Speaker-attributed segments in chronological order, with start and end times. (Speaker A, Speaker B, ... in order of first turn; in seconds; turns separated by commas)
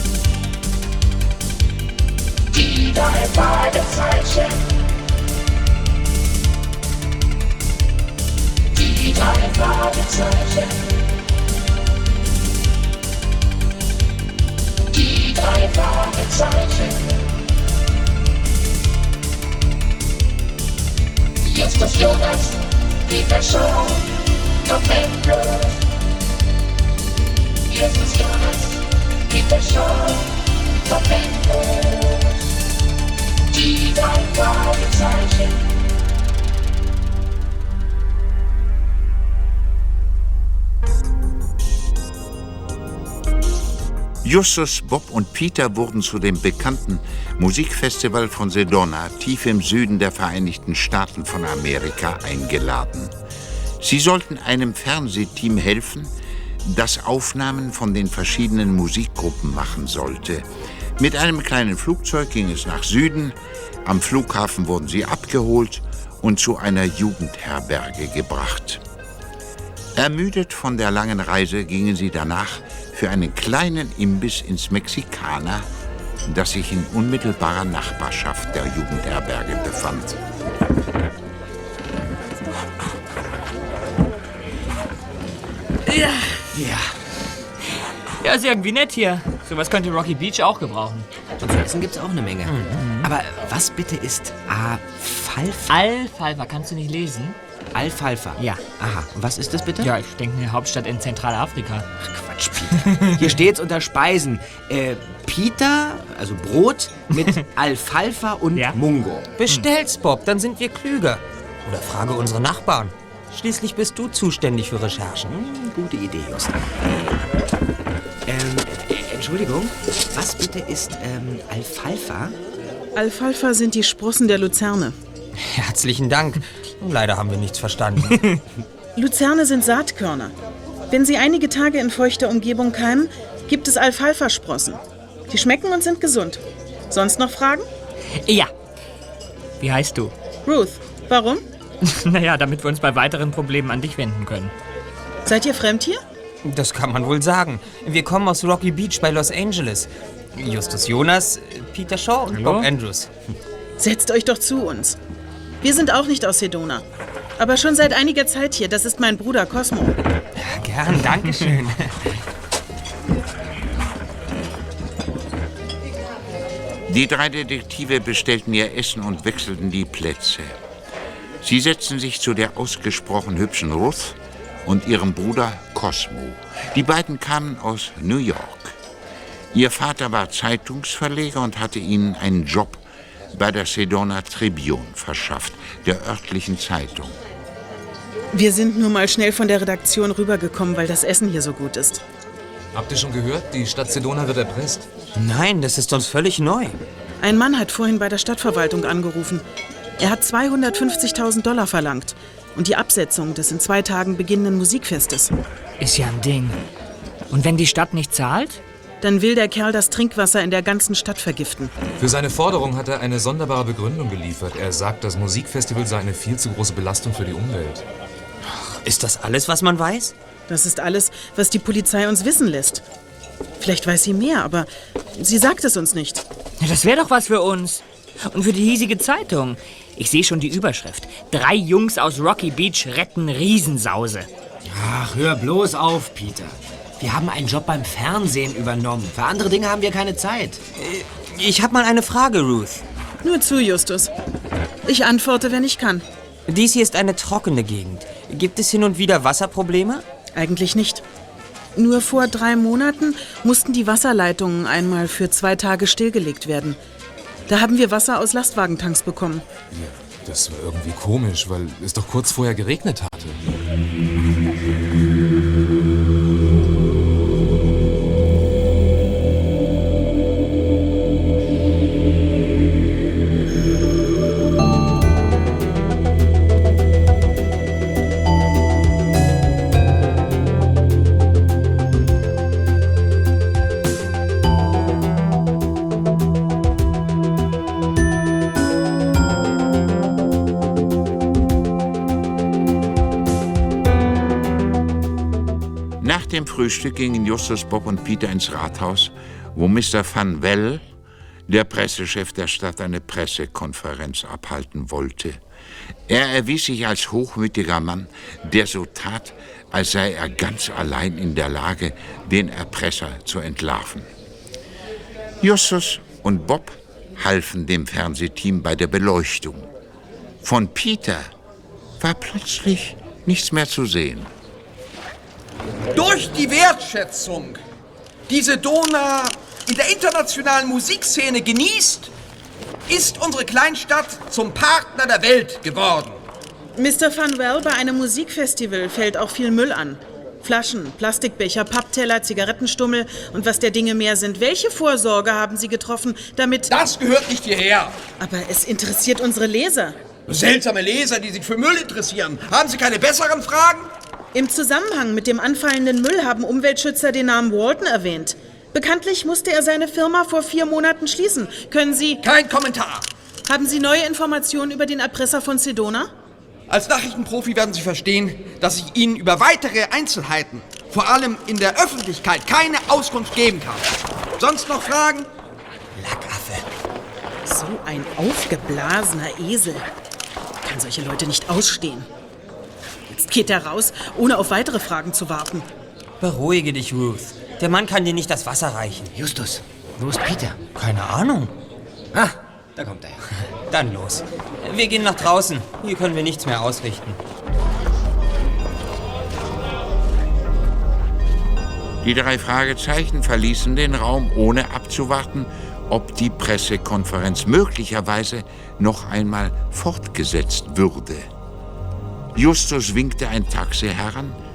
Speaker A: 3.0-4.2, Speaker A: 9.1-10.6, Speaker A: 15.1-16.9, Speaker A: 21.6-22.4, Speaker A: 23.1-23.8, Speaker A: 24.7-25.6, Speaker A: 27.8-28.5, Speaker A: 29.3-30.0, Speaker A: 31.0-31.3, Speaker A: 33.6-35.4, Speaker B: 44.2-53.1, Speaker B: 53.8-56.1, Speaker B: 56.6-60.4, Speaker B: 61.0-68.8, Speaker B: 70.0-75.7, Speaker B: 76.3-80.2, Speaker C: 85.9-86.7, Speaker C: 88.2-91.1, Speaker D: 91.4-95.8, Speaker C: 92.8-93.1, Speaker C: 95.7-97.4, Speaker D: 97.7-99.9, Speaker C: 98.4-98.6, Speaker C: 99.8-101.9, Speaker D: 102.0-109.3, Speaker C: 102.8-103.2, Speaker E: 109.4-115.3, Speaker D: 115.3-117.1, Speaker D: 118.2-122.4, Speaker F: 122.9-125.0, Speaker E: 125.4-128.4, Speaker F: 128.9-130.3, Speaker F: 130.9-137.7, Speaker C: 138.2-138.5, Speaker C: 139.6-140.1, Speaker F: 140.4-141.4, Speaker C: 141.8-144.5, Speaker F: 145.2-146.0, Speaker E: 146.4-153.1, Speaker C: 152.3-152.7, Speaker F: 153.8-155.0, Speaker F: 155.6-156.8, Speaker F: 157.4-159.9, Speaker E: 160.4-161.9, Speaker B: 166.9-170.5, Speaker B: 171.4-178.8, Speaker B: 179.5-182.8, Speaker B: 183.3-187.2, Speaker F: 188.3-192.0, Speaker G: 192.7-194.8, Speaker E: 195.1-196.8, Speaker F: 197.2-199.4, Speaker F: 200.0-205.3, Speaker C: 205.8-206.6, Speaker C: 207.3-208.6, Speaker F: 209.0-211.7, Speaker G: 212.0-217.8, Speaker E: 218.8-220.1, Speaker F: 220.5-222.8, Speaker F: 223.6-226.2, Speaker C: 226.6-234.3, Speaker D: 234.7-240.6, Speaker E: 240.8-242.8, Speaker F: 243.2-244.1, Speaker F: 244.8-246.0, Speaker E: 246.5-250.0, Speaker F: 250.3-251.0, Speaker F: 251.8-256.8, Speaker F: 257.5-259.4, Speaker G: 259.7-263.4, Speaker B: 296.0-300.9, Speaker B: 301.5-305.4, Speaker B: 306.1-314.1, Speaker B: 315.4-319.7, Speaker B: 320.4-321.3, Speaker B: 322.0-324.3, Speaker H: 325.9-327.6, Speaker H: 328.3-332.1, Speaker H: 332.9-336.2, Speaker F: 336.8-346.7, Speaker H: 346.7-348.0, Speaker F: 348.2-349.9, Speaker H: 350.3-353.9, Speaker F: 354.3-362.2, Speaker H: 362.2-363.1, Speaker F: 363.4-366.1, Speaker H: 366.7-375.3, Speaker E: 376.0-376.6, Speaker F: 377.4-379.8, Speaker F: 380.6-382.1, Speaker F: 383.1-385.7, Speaker E: 386.2-389.1, Speaker D: 389.1-390.6, Speaker E: 390.7-391.5, Speaker D: 392.1-393.2, Speaker E: 393.7-397.2, Speaker B: 402.0-411.3, Speaker B: 412.3-414.4